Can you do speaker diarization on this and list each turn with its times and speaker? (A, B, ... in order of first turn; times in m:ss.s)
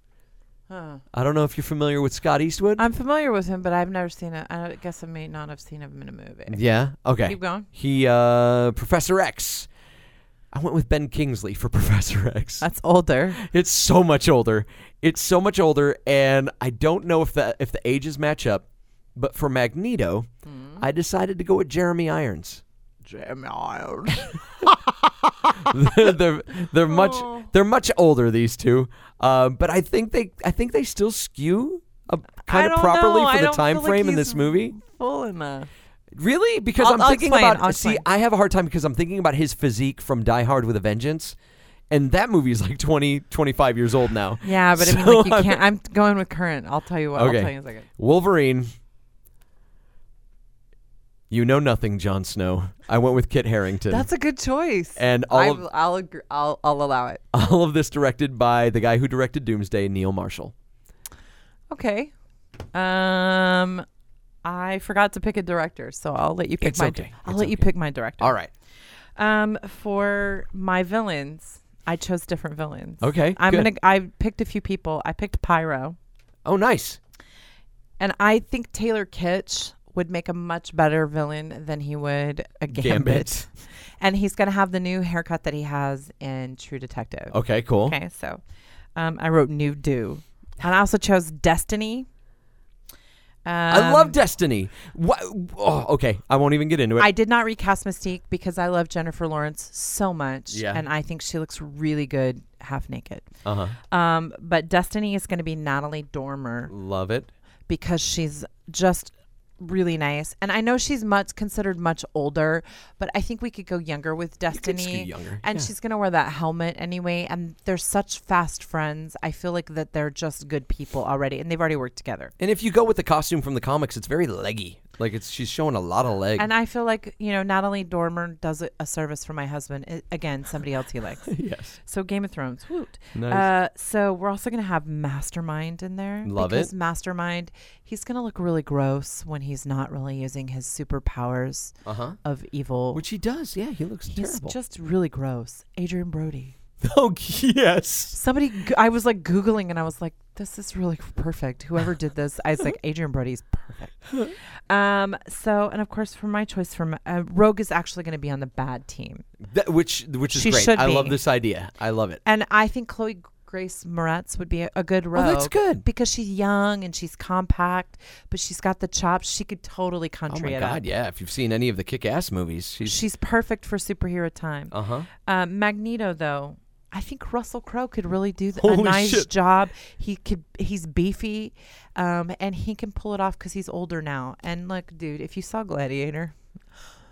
0:00.7-0:01.0 A
0:01.1-0:02.8 B
0:02.8-0:06.6 A
0:06.5-0:09.7 B
0:07.2-0:07.7 A
0:10.5-0:12.7 B
0:12.6-0:13.4 A
0:13.4-0:20.3 B
0:20.5-0:20.8 A
0:20.8-0:22.6 B
0:23.0-0:25.6 A
0:25.6-0:34.7 B
0:26.8-0:27.5 A
0:32.5-0:35.7 A
0:36.2-0:41.4 B
0:36.8-0:38.0 A
0:41.9-0:45.6 B
0:44.4-0:47.9 A
0:47.2-0:48.7 B
0:51.3-0:54.1 B
0:53.9-0:57.2 A
0:55.0-0:55.6 B
0:57.3-1:00.5 B
1:01.7-1:02.1 A
1:02.7-1:03.9 A
1:04.4-1:08.3 A
1:06.6-1:07.7 B
1:08.2-1:08.5 B
1:09.2-1:16.0 A
1:13.0-1:13.7 B
1:16.4-1:17.0 B
1:18.0-1:23.5 A
1:22.7-1:23.4 B
1:24.0-1:28.4 A
1:27.3-1:28.0 B
1:29.0-1:32.1 A
1:33.4-1:34.2 A
1:33.7-1:37.1 B
1:37.0-1:43.3 A
1:40.5-1:40.8 B
1:43.4-1:43.8 B
1:43.9-1:46.7 A
1:46.7-1:47.3 B
1:47.7-2:02.3 A
1:54.5-1:55.7 B
2:02.4-2:06.5 B
2:06.4-2:11.3 A
2:11.3-2:11.8 B
2:11.9-2:23.0 A
2:13.2-2:13.5 B
2:16.2-2:16.7 B
2:21.9-2:22.2 B
2:22.9-2:24.6 B
2:24.1-2:26.6 A
2:26.8-2:28.2 B
2:28.1-2:39.2 A
2:39.4-2:42.2 B
2:40.3-2:41.2 A
2:42.2-2:50.8 A
2:45.2-2:45.8 B
2:50.3-2:53.0 B
2:52.8-3:06.4 A
2:54.7-2:55.1 B
2:58.6-2:59.3 B